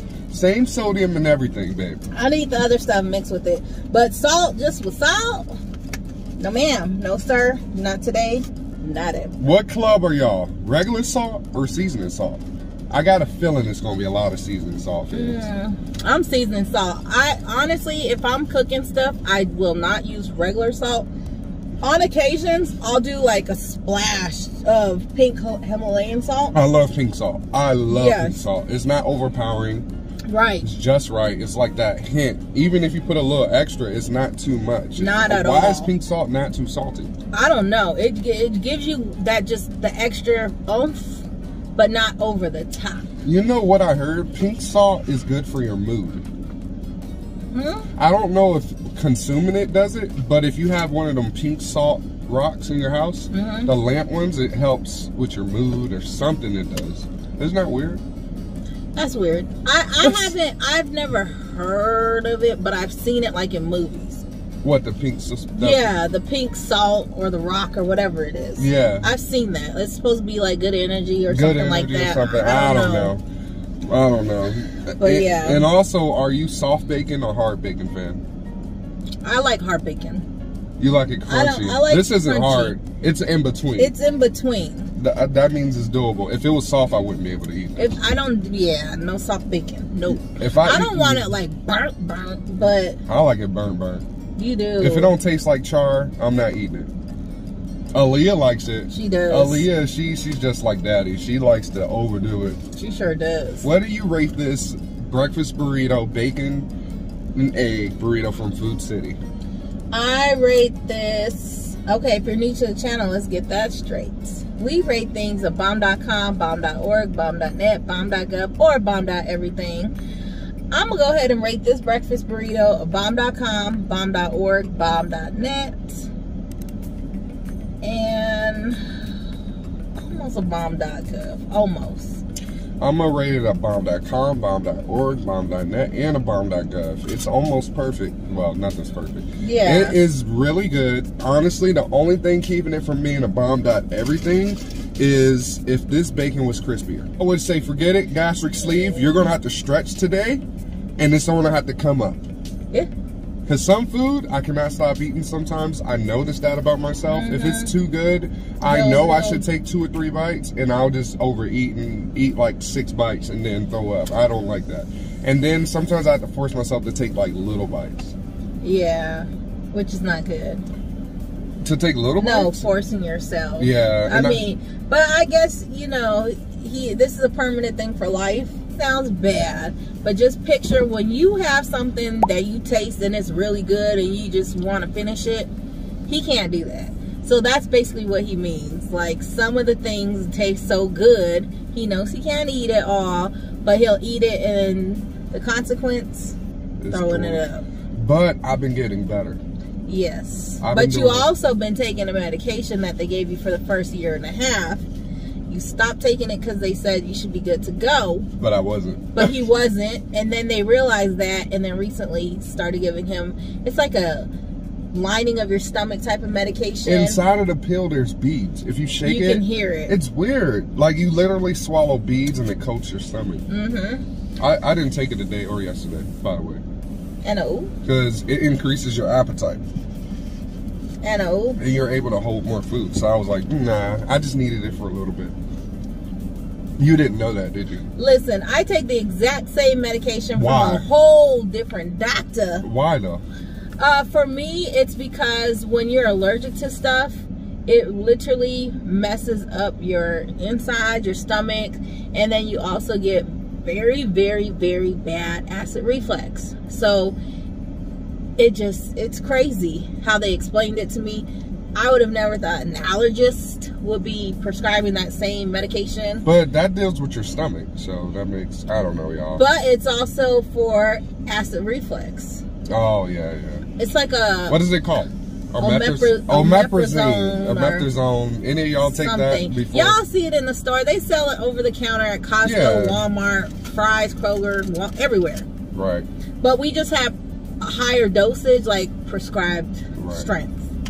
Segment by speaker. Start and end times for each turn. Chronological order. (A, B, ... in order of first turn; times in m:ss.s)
0:00.3-0:02.0 A
0:02.1-0:05.6 B
0:06.4-0:09.4 B
0:09.4-0:15.5 A
0:15.1-0:21.1 B
0:21.8-0:26.6 B
0:26.5-0:29.9 A
0:27.9-0:28.5 B
0:30.3-0:30.7 B
0:30.6-0:37.1 A
0:35.0-0:35.9 B
0:37.3-0:41.2 B
0:41.8-0:43.1 B
0:43.2-0:46.2 A
0:47.5-0:47.9 B
0:48.0-0:58.0 A
0:53.3-0:53.7 B
0:59.0-1:04.2 B
1:00.0-1:00.3 A
1:04.6-1:05.9 A
1:05.6-1:13.2 B
1:08.6-1:09.1 A
1:11.3-1:13.2 A
1:13.9-1:18.2 A
1:15.0-1:15.7 B
1:19.2-1:20.2 B
1:20.8-1:23.9 A
1:21.3-1:22.8 B
1:23.8-1:24.9 B
1:25.0-1:28.0 A
1:27.8-1:33.0 B
1:30.2-1:31.4 A
1:33.0-1:34.0 A
1:34.4-1:35.2 B
1:34.8-1:36.9 A
1:37.9-1:42.6 A
1:38.9-1:39.7 B
1:42.8-1:43.7 B
1:43.6-1:46.7 A
1:47.3-1:49.2 A
1:49.9-1:59.9 B
2:00.7-2:06.1 B
2:07.8-2:08.8 B
2:10.0-2:12.2 B
2:12.8-2:30.4 A
2:19.4-2:20.0 B
2:28.7-2:29.3 B
2:31.0-2:32.2 A
2:33.5-2:48.2 A
2:37.1-2:37.8 B
2:38.6-2:39.4 B
2:48.6-2:50.6 B
2:51.6-2:52.6 A
2:52.2-3:05.5 B
2:53.6-2:54.4 A
3:06.1-3:16.4 B
3:16.8-3:17.4 A
3:16.9-3:17.7 B
3:17.9-3:19.4 A
3:19.9-3:24.8 B
3:20.6-3:21.3 A
3:25.5-3:28.3 B
3:28.4-3:29.3 A
3:29.2-3:34.3 B
3:34.9-3:37.2 B
3:36.9-3:43.4 A
3:39.0-3:40.0 B
3:43.5-3:44.0 B
3:44.4-3:46.6 A
3:47.2-3:47.7 B
3:47.8-3:49.6 A
3:51.0-3:51.6 B
3:51.6-3:55.4 A
3:56.8-3:57.8 A
3:58.0-4:02.6 B
4:00.4-4:00.9 A
4:02.6-4:03.2 A
4:03.8-4:17.2 B
4:18.4-4:26.2 B
4:26.2-4:29.5 A
4:29.4-4:32.4 B
4:32.7-4:33.6 A
4:33.8-4:34.6 B
4:34.5-4:40.0 A
4:35.6-4:37.9 B
4:38.8-4:45.5 B
4:42.4-4:43.0 A
4:45.7-4:46.1 A
4:46.4-4:50.6 B
4:50.0-4:50.3 A